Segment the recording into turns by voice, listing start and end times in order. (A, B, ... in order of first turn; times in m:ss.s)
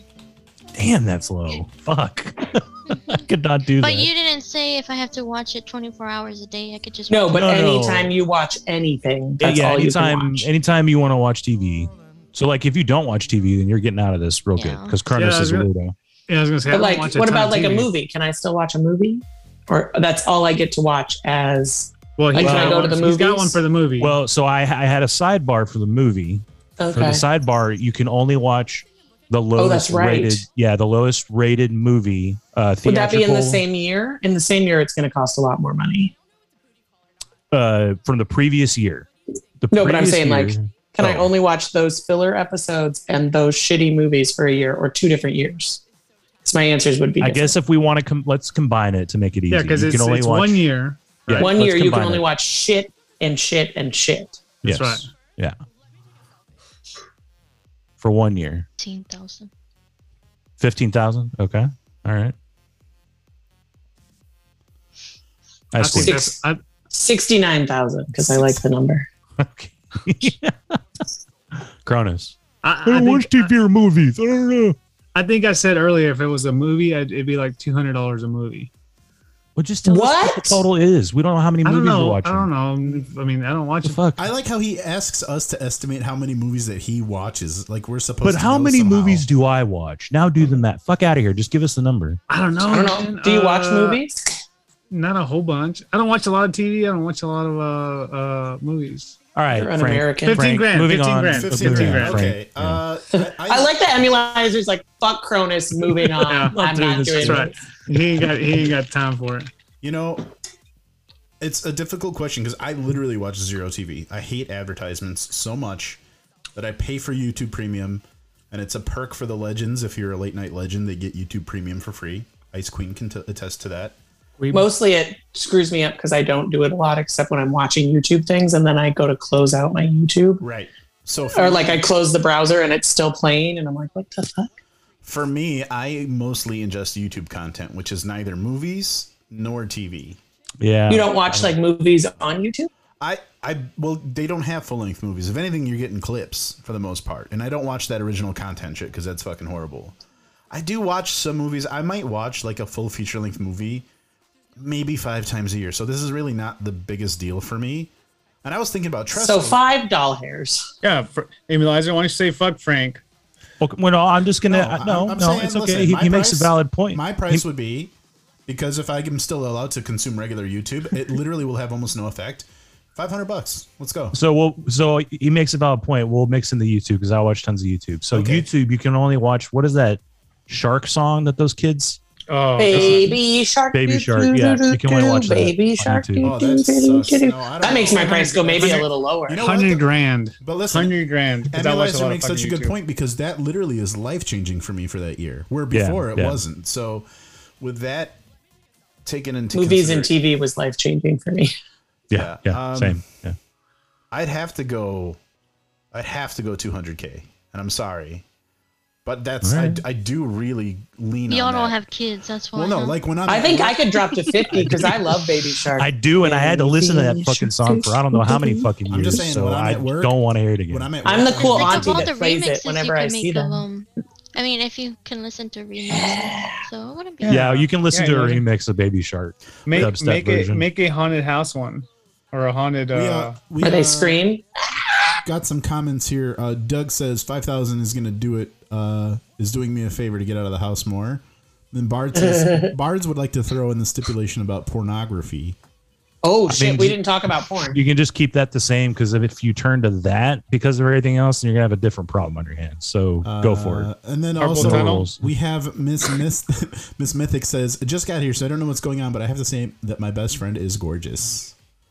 0:00.8-0:04.1 A
0:02.9-0:03.2 B
0:03.8-0:07.4 B
0:07.1-0:10.5 C
0:07.3-0:08.1 A
0:09.4-0:15.9 A
0:14.6-0:15.0 B
0:15.1-0:15.7 D
0:16.3-0:17.9 D
0:16.7-0:23.6 C
0:22.2-0:24.1 D
0:22.4-0:22.9 A
0:24.0-0:33.6 A
0:26.8-0:27.2 C
0:29.6-0:30.4 C
0:32.8-0:36.1 C
0:37.5-0:39.1 A
0:39.6-0:41.3 A
0:39.7-0:45.8 C
0:46.4-0:47.6 C
0:47.2-0:50.6 A
0:49.5-0:51.5 D
0:51.2-0:52.2 A
0:51.4-0:54.5 C
0:54.6-0:55.1 D
0:54.6-0:55.6 A
0:58.0-0:58.6 A
0:58.8-0:59.5 B
1:00.6-1:02.3 A
1:05.7-1:06.2 A
1:05.8-1:06.6 D
1:05.9-1:06.4 C
1:06.9-1:09.1 C
1:09.4-1:10.8 A
1:11.8-1:14.8 A
1:12.6-1:13.5 D
1:15.1-1:18.7 D
1:19.6-1:22.5 A
1:19.8-1:20.6 C
1:21.6-1:24.0 D
1:23.8-1:24.3 A
1:24.2-1:29.3 E
1:28.2-1:32.2 A
1:32.3-1:34.0 D
1:32.6-1:34.2 C
1:34.9-1:39.2 D
1:39.3-1:42.8 A
1:39.5-1:40.5 C
1:40.2-1:42.2 D
1:41.3-1:43.7 E
1:43.1-1:47.5 C
1:46.2-1:46.6 D
1:46.5-1:47.5 A
1:47.2-1:49.5 D
1:49.8-1:50.3 E
1:51.4-1:56.0 E
1:56.5-2:04.0 E
2:04.4-2:04.7 D
2:04.5-2:10.4 C
2:10.4-2:11.9 E
2:11.3-2:14.5 C
2:15.0-2:20.2 E
2:20.6-2:21.6 A
2:20.9-2:22.7 C
2:23.0-2:30.0 E
2:30.5-2:33.9 E
2:34.6-2:37.9 E
2:38.4-2:39.6 E
2:39.1-2:40.7 C
2:40.8-2:43.0 D
2:43.6-2:47.4 A
2:44.5-2:47.9 E
2:48.5-2:54.2 E
2:54.1-3:02.0 A
2:58.1-2:58.5 E
3:02.3-3:03.2 D
3:02.6-3:09.4 C
3:03.7-3:06.3 A
3:06.2-3:08.8 E
3:07.7-3:12.7 D
3:09.3-3:09.8 E
3:10.4-3:11.0 E
3:11.5-3:17.1 E
3:15.7-3:16.4 A
3:17.6-3:18.2 E
3:19.0-3:20.1 E
3:19.5-3:21.5 C
3:22.1-3:23.4 A
3:22.1-3:23.0 E
3:24.1-3:25.2 E
3:25.9-3:28.2 E
3:29.0-3:31.8 E
3:29.4-3:29.8 A
3:31.3-3:33.0 B
3:32.5-3:33.9 E
3:33.3-3:38.7 C
3:34.5-3:34.8 A
3:34.5-3:34.9 E
3:35.8-3:40.9 A
3:38.9-3:40.2 E
3:40.7-3:42.1 E
3:41.0-3:43.6 C
3:41.4-3:47.4 B
3:45.9-3:46.6 C
3:47.2-3:48.4 D
3:47.3-3:50.6 A
3:49.6-3:53.4 D
3:52.9-3:54.2 E
3:53.6-3:54.4 C
3:55.2-4:05.6 E
4:02.2-4:02.7 C
4:06.2-4:07.8 C
4:06.5-4:07.0 A
4:07.7-4:13.9 A
4:13.2-4:21.5 E
4:14.4-4:15.1 D
4:14.4-4:15.2 A